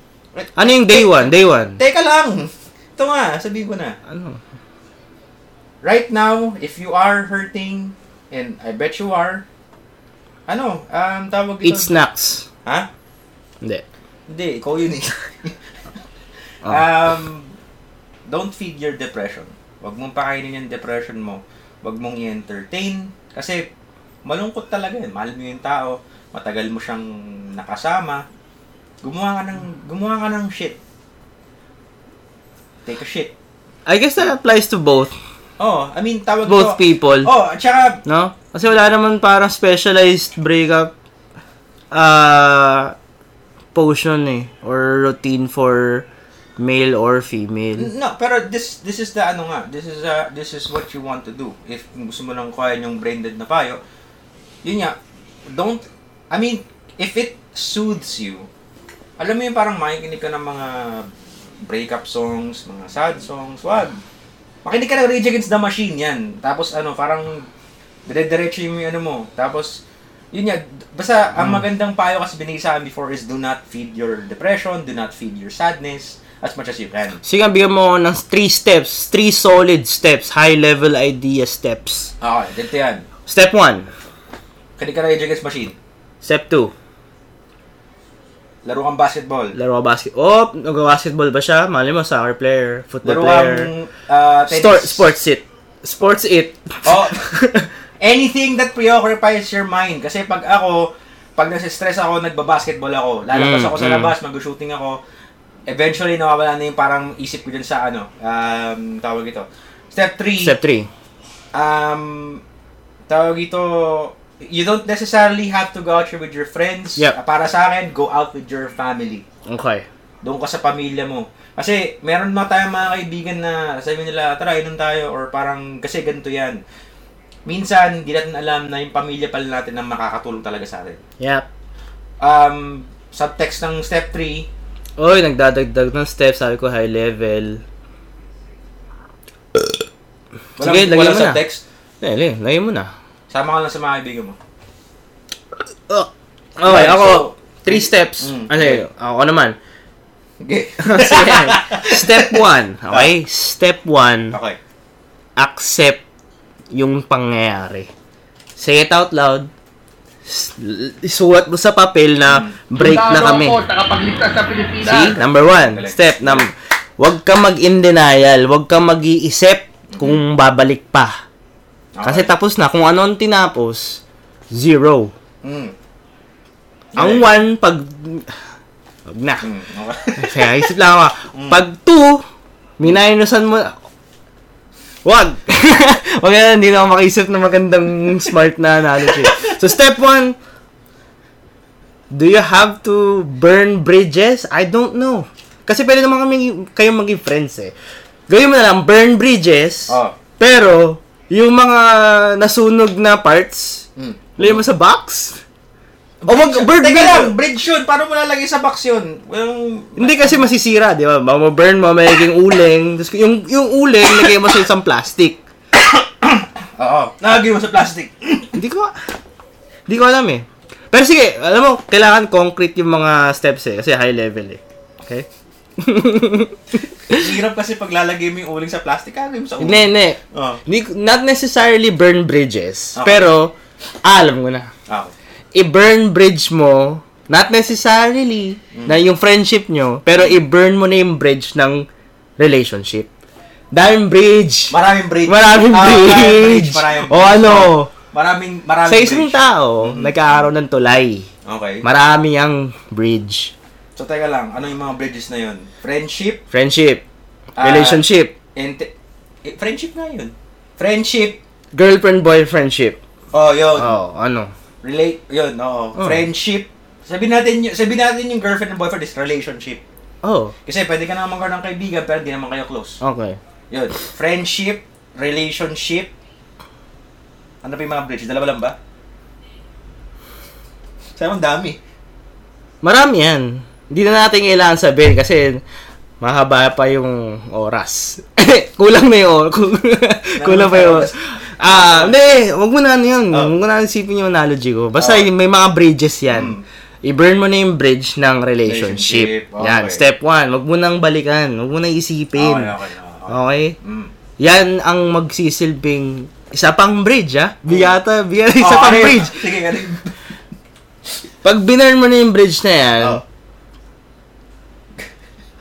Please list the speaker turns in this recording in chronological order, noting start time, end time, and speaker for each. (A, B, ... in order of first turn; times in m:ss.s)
0:00.4-0:04.0 A
0:00.6-0:01.8 B
0:04.1-0:04.4 B
0:05.8-0:09.4 A
0:10.5-0:11.9 A
0:11.6-0:12.5 B
0:14.3-0:15.6 A
0:16.6-0:17.5 A
0:18.3-0:23.6 A
0:24.3-0:28.2 A
0:29.0-0:30.8 A
0:32.8-0:33.3 A
0:33.9-0:35.1 B
0:35.6-0:38.0 A
0:36.5-0:37.3 B
0:38.1-0:40.9 B
0:41.9-0:42.9 B
0:43.7-0:46.1 B
0:46.6-0:47.9 B
0:47.8-0:53.8 A
0:54.6-0:55.0 A
0:55.5-0:58.5 A
0:59.2-1:01.1 A
1:01.7-1:04.0 A
1:04.6-1:07.5 A
1:08.1-1:09.8 A
1:10.3-1:17.2 A
1:17.2-1:22.1 B
1:22.2-1:23.1 A
1:23.3-1:23.9 B
1:24.8-1:25.8 A
1:26.2-1:26.7 B
1:28.6-1:29.6 A
1:29.6-1:33.7 B
1:33.0-1:35.0 A
1:34.5-1:37.7 B
1:36.8-1:37.3 A
1:38.0-1:45.0 A
1:43.3-1:44.1 B
1:45.7-1:50.6 A
1:50.4-1:50.9 B
1:51.5-1:52.4 A
1:53.1-1:59.2 A
1:59.5-1:59.9 B
2:00.2-2:06.6 A
2:07.5-2:11.0 A
2:11.2-2:11.5 B
2:12.2-2:14.5 A
2:15.0-2:17.6 B
2:20.6-2:21.6 A
2:20.6-2:21.4 B
2:22.0-2:22.9 B
2:23.3-2:24.4 A
2:25.9-2:29.6 B
2:26.6-2:28.8 A
2:30.4-2:33.1 A
2:30.8-2:34.4 B
2:34.3-2:34.6 A
2:35.4-2:36.0 B
2:36.7-2:37.9 B
2:38.6-2:39.5 B
2:40.3-2:43.6 B
2:42.3-2:42.6 A
2:42.8-2:45.1 C
2:44.8-2:51.1 B
2:44.9-2:46.5 A
2:49.9-2:50.2 A
2:52.0-2:52.3 A
2:52.0-2:54.0 B
2:54.5-2:55.1 B
2:55.4-2:55.7 A
2:57.0-2:57.4 A
2:57.0-2:58.3 B
2:59.1-2:59.4 B
2:59.4-3:00.5 A
3:00.2-3:02.2 B
3:01.3-3:01.6 A
3:02.8-3:03.7 B
3:05.0-3:10.4 B
3:09.0-3:09.6 A
3:12.1-3:17.7 B
3:18.3-3:23.9 B
3:19.9-3:20.2 A
3:24.0-3:24.6 A
3:24.4-3:25.4 B
3:26.2-3:30.4 A
3:26.3-3:27.3 B
3:30.0-3:35.4 B
3:35.8-3:38.6 A
3:38.6-3:39.0 B
3:39.9-3:45.3 B
3:45.8-3:47.3 B
3:47.1-3:50.6 A
3:49.6-3:54.7 B
3:53.0-3:53.3 A
3:54.9-3:55.1 A
3:55.6-4:01.9 B
3:58.7-3:59.0 A
4:00.1-4:00.4 A
4:02.4-4:03.1 B
4:03.7-4:07.9 B
4:04.7-4:10.1 A
4:08.9-4:11.3 B
4:11.4-4:11.9 A
4:11.8-4:13.5 B
4:14.0-4:16.4 A
4:16.5-4:17.0 B
4:17.6-4:18.9 A
4:17.6-4:18.4 B
4:19.4-4:21.4 A
4:21.7-4:23.0 B
4:23.3-4:24.0 A
4:23.8-4:24.5 B
4:24.8-4:29.8 A
4:30.2-4:30.5 B
4:30.6-4:33.0 A
4:33.0-4:33.4 B
4:33.7-4:36.1 A
4:37.6-4:38.8 A
4:41.2-4:41.8 A
4:42.8-4:45.6 B
4:46.2-5:02.7 B
4:50.4-4:52.1 A
4:55.0-4:55.3 A
4:56.3-4:56.6 A
4:58.6-5:00.0 A
5:02.4-5:04.1 A
5:03.3-5:03.8 B
5:04.4-5:09.4 B
5:07.7-5:08.0 A
5:08.6-5:10.1 A
5:11.4-5:13.2 B